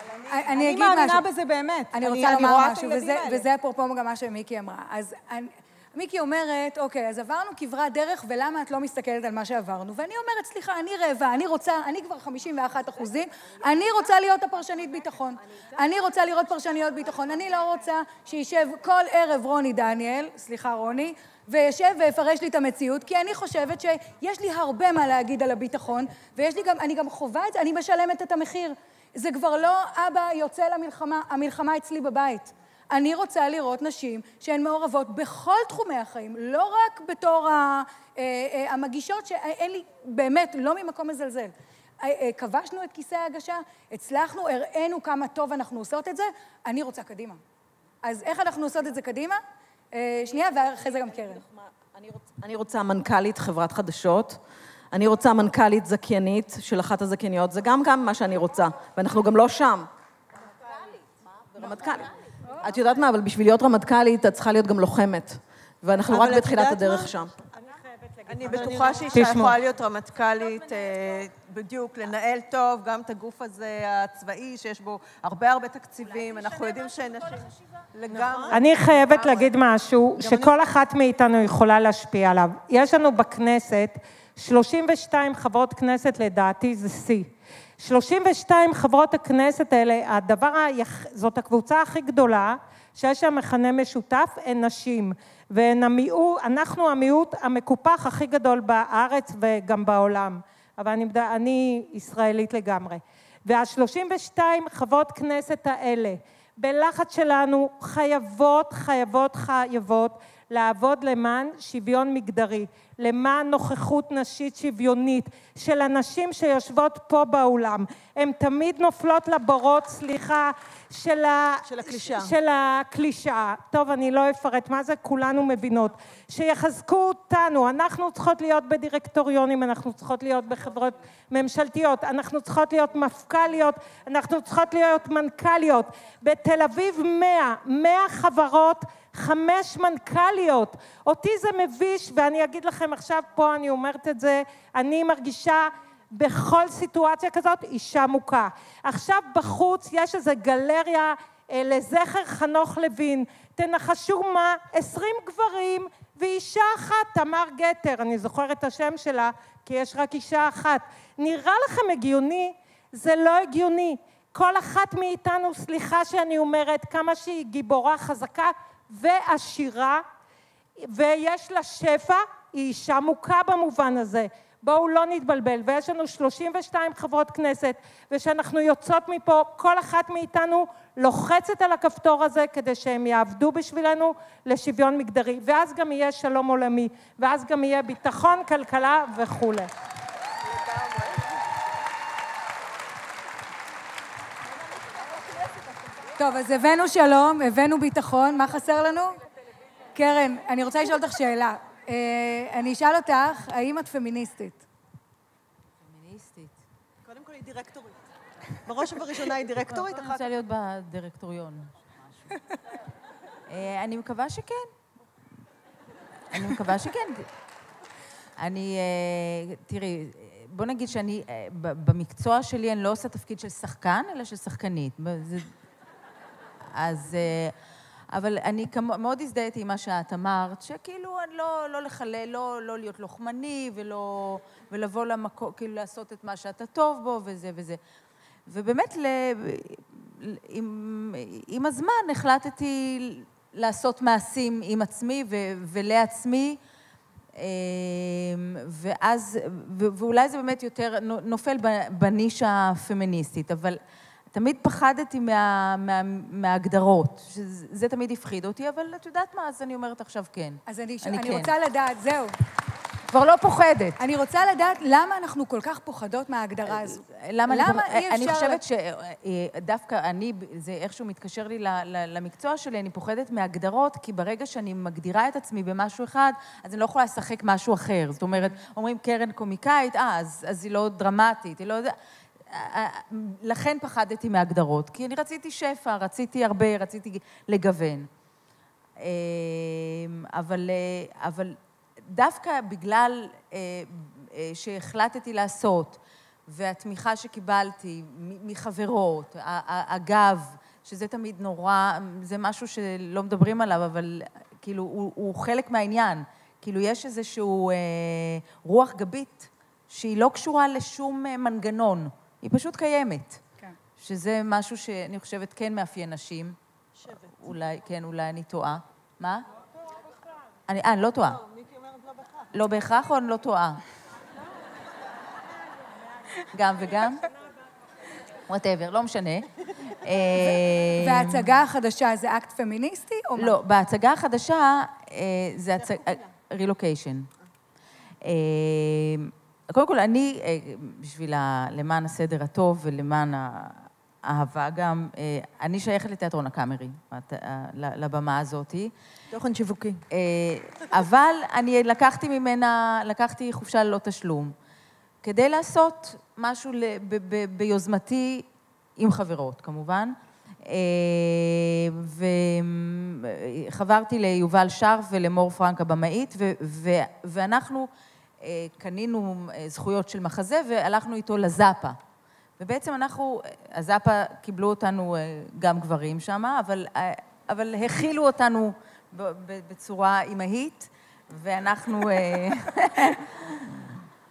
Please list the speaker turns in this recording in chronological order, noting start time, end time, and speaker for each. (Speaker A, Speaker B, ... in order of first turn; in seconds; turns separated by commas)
Speaker A: 0.3-1.2, Speaker B: 0.4-3.5, Speaker A: 1.9-47.4, Speaker A: 48.0-49.4, Speaker A: 49.9-51.4, Speaker C: 50.4-54.4, Speaker C: 54.9-59.9, Speaker C: 61.5-67.3, Speaker D: 66.1-67.1, Speaker E: 68.3-79.5, Speaker D: 68.4-69.4, Speaker F: 69.1-69.6, Speaker D: 78.1-78.6, Speaker F: 78.5-170.0, Speaker D: 80.2-80.5, Speaker D: 121.7-122.3, Speaker F: 170.9-189.7, Speaker A: 196.2-199.2, Speaker A: 199.9-204.7, Speaker G: 205.8-206.6, Speaker D: 207.1-208.0, Speaker D: 208.7-210.3, Speaker G: 209.7-211.7, Speaker G: 213.5-214.7, Speaker G: 216.3-217.3, Speaker G: 218.4-225.5, Speaker G: 226.7-227.5, Speaker G: 228.1-237.8, Speaker G: 238.5-246.6, Speaker G: 247.4-253.8, Speaker G: 254.3-261.5, Speaker A: 260.7-262.3, Speaker G: 263.1-264.0, Speaker A: 264.0-268.6, Speaker G: 266.7-281.9, Speaker G: 282.5-288.1, Speaker G: 289.0-291.6, Speaker G: 292.1-313.4, Speaker G: 314.0-316.6, Speaker D: 317.0-317.3, Speaker G: 317.1-319.5, Speaker G: 320.7-321.4, Speaker D: 322.2-322.5, Speaker G: 322.5-323.8, Speaker G: 326.5-327.3, Speaker G: 328.5-329.5, Speaker G: 330.0-331.4, Speaker A: 331.0-333.6, Speaker G: 333.4-337.3, Speaker G: 338.2-348.9, Speaker D: 349.3-350.0, Speaker G: 350.1-354.5, Speaker G: 355.2-367.9, Speaker G: 368.4-372.0, Speaker G: 372.6-384.0